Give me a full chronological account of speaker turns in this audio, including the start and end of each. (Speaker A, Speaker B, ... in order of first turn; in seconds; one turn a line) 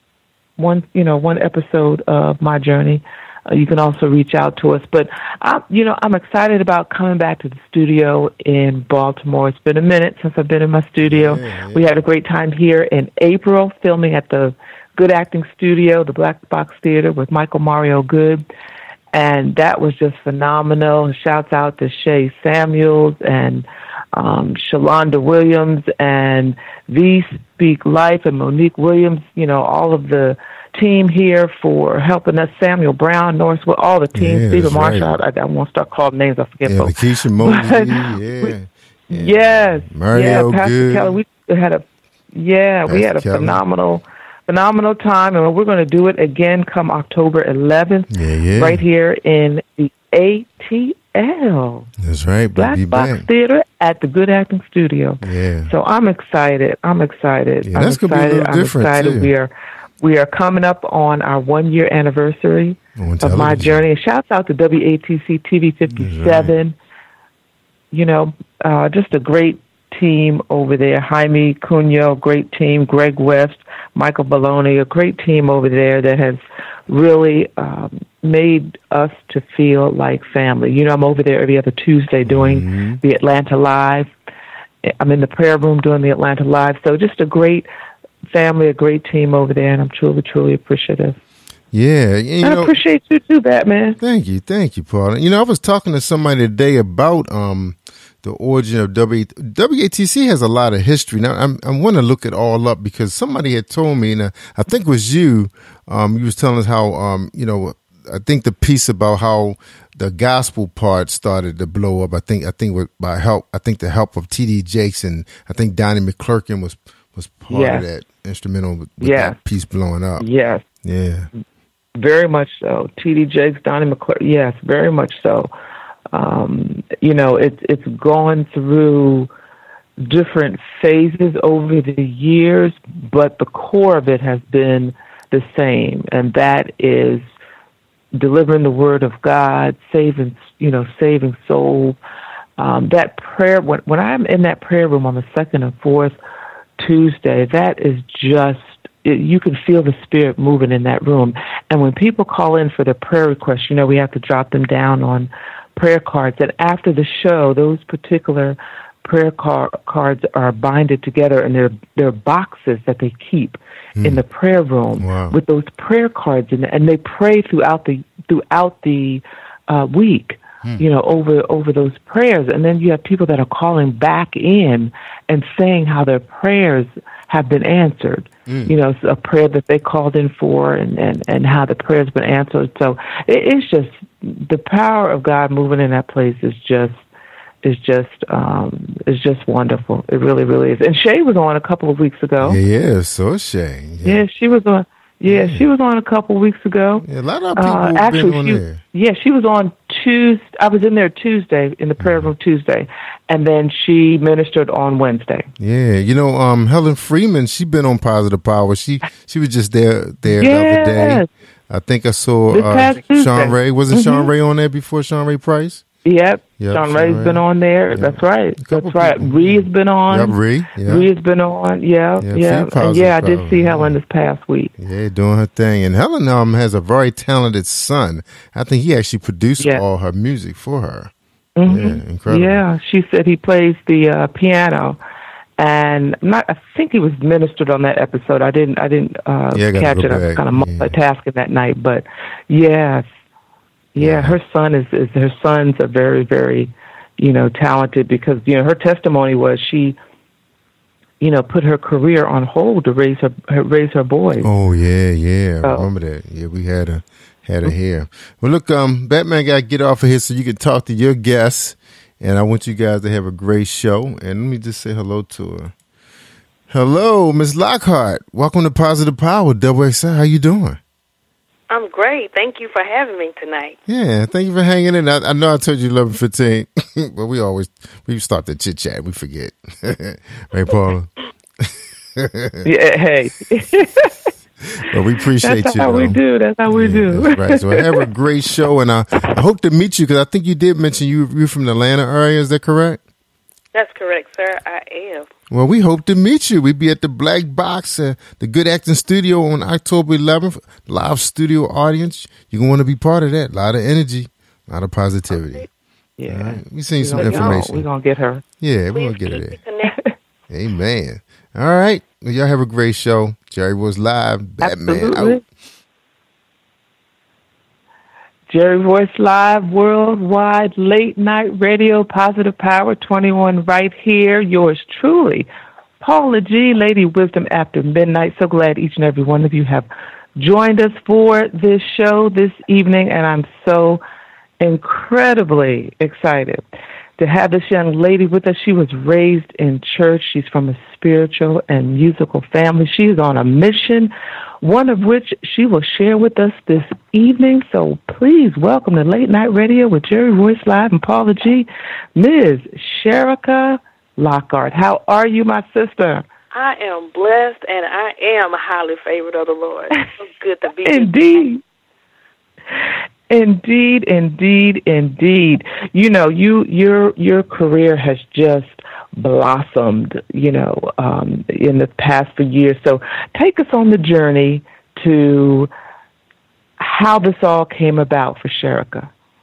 Speaker A: 0.6-18.5
Speaker B: 11.0-11.9
Speaker A: 19.1-38.5
Speaker B: 34.1-35.2
Speaker B: 36.7-41.2
Speaker A: 39.1-51.9
Speaker B: 42.9-43.6
Speaker B: 48.1-48.8
Speaker B: 52.0-53.3
Speaker A: 52.6-66.8
Speaker B: 55.2-55.7
Speaker B: 57.7-59.3
Speaker B: 63.0-63.8
Speaker B: 65.9-66.5
Speaker A: 67.9-84.1
Speaker B: 82.2-83.0
Speaker A: 84.9-87.7
Speaker A: 88.3-91.2
Speaker B: 91.7-92.8
Speaker A: 92.4-94.0
Speaker B: 94.0-120.3
Speaker A: 117.5-117.8
Speaker A: 119.0-119.4
Speaker A: 120.2-120.6
Speaker B: 120.8-121.3
Speaker A: 122.0-125.5
Speaker A: 126.1-129.3
Speaker A: 130.0-137.2
Speaker A: 138.1-142.0
Speaker A: 142.6-146.1
Speaker A: 146.8-187.1
Speaker B: 164.0-164.2
Speaker B: 165.0-165.3
Speaker B: 178.5-178.7
Speaker A: 187.6-192.6
Speaker B: 192.4-194.2
Speaker A: 194.0-205.5
Speaker B: 195.3-195.7
Speaker B: 197.0-198.8
Speaker B: 202.0-202.3
Speaker B: 205.6-215.8
Speaker A: 210.3-211.3
Speaker A: 212.5-214.3
Speaker A: 216.0-224.7
Speaker B: 216.6-221.1
Speaker B: 222.2-224.0
Speaker B: 224.8-231.1
Speaker A: 231.6-235.0
Speaker B: 231.7-232.7
Speaker A: 235.6-243.1
Speaker B: 239.5-240.9
Speaker A: 243.9-250.0
Speaker B: 244.0-244.4
Speaker A: 251.2-254.5
Speaker B: 254.4-265.7
Speaker A: 255.6-255.9
Speaker B: 266.7-270.8
Speaker C: 271.7-273.8
Speaker B: 273.9-282.7
Speaker A: 282.6-284.1
Speaker B: 284.8-293.0
Speaker A: 285.4-288.0
Speaker C: 293.7-295.3
Speaker B: 295.5-305.7
Speaker A: 306.2-308.4
Speaker B: 306.3-307.9
Speaker C: 307.2-307.6
Speaker B: 308.6-309.6
Speaker C: 308.9-310.0
Speaker B: 310.5-315.4
Speaker A: 314.6-315.4
Speaker A: 318.5-325.5
Speaker A: 326.0-334.0
Speaker A: 334.6-336.6
Speaker A: 337.2-356.3
Speaker C: 356.5-361.5
Speaker A: 360.9-361.6
Speaker A: 362.7-375.7
Speaker A: 376.8-379.1